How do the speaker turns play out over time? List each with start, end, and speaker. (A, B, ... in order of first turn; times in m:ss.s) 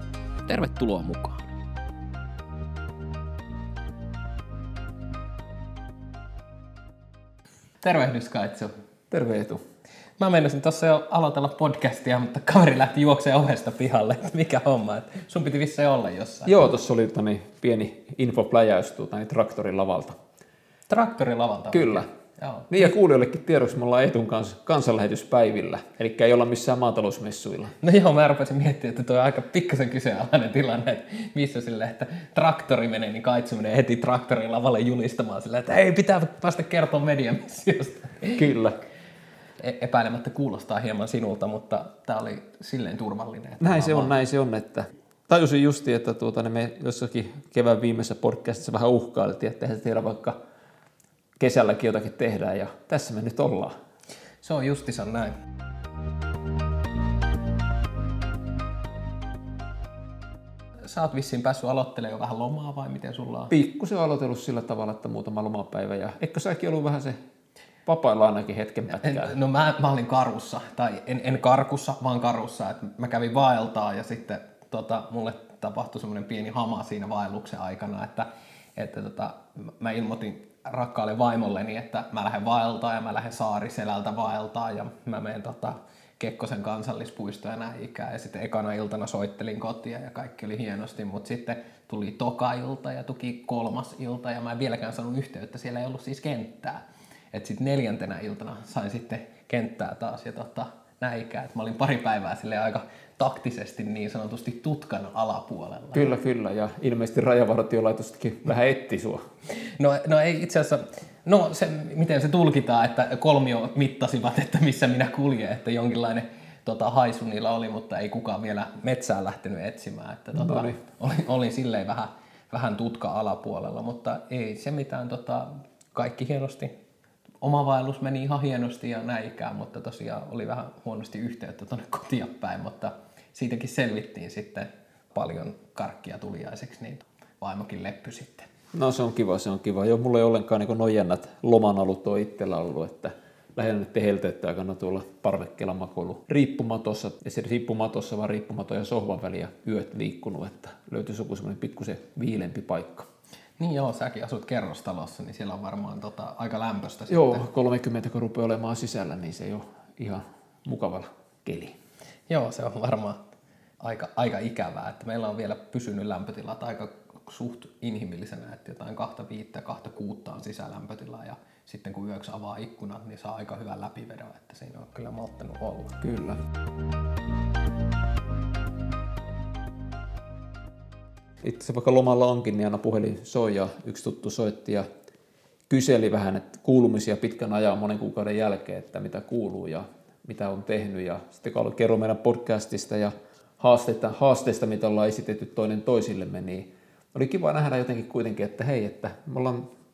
0:00.5-0:01.5 A
0:07.8-0:08.7 A
0:09.1-0:09.6 B
0:10.2-0:16.7 A
0:16.4-0:20.2 B
0:20.9-0:22.9 A
0:21.7-0:22.1 B
0:22.7-0:27.7 B
0:27.8-0:38.4 A
0:38.3-0:38.8 B
0:39.6-0:44.1 A
0:43.6-0:50.4 B
0:51.4-0:53.7 B
0:54.4-0:55.3 A
1:00.9-1:03.5 A
1:03.5-1:07.2 B
1:07.9-1:09.3 B
1:09.0-1:36.8 A
1:37.3-1:46.1 A
1:45.9-1:49.2 B
1:49.8-2:06.7 A
2:00.3-2:00.8 B
2:07.4-2:18.5 A
2:18.7-2:33.1 B
2:33.6-2:37.4 A
2:37.1-2:41.8 B
2:42.3-2:43.2 A
2:43.8-2:56.0 A
2:56.0-2:56.4 B
3:01.4-3:04.8 B
3:05.7-3:19.7 B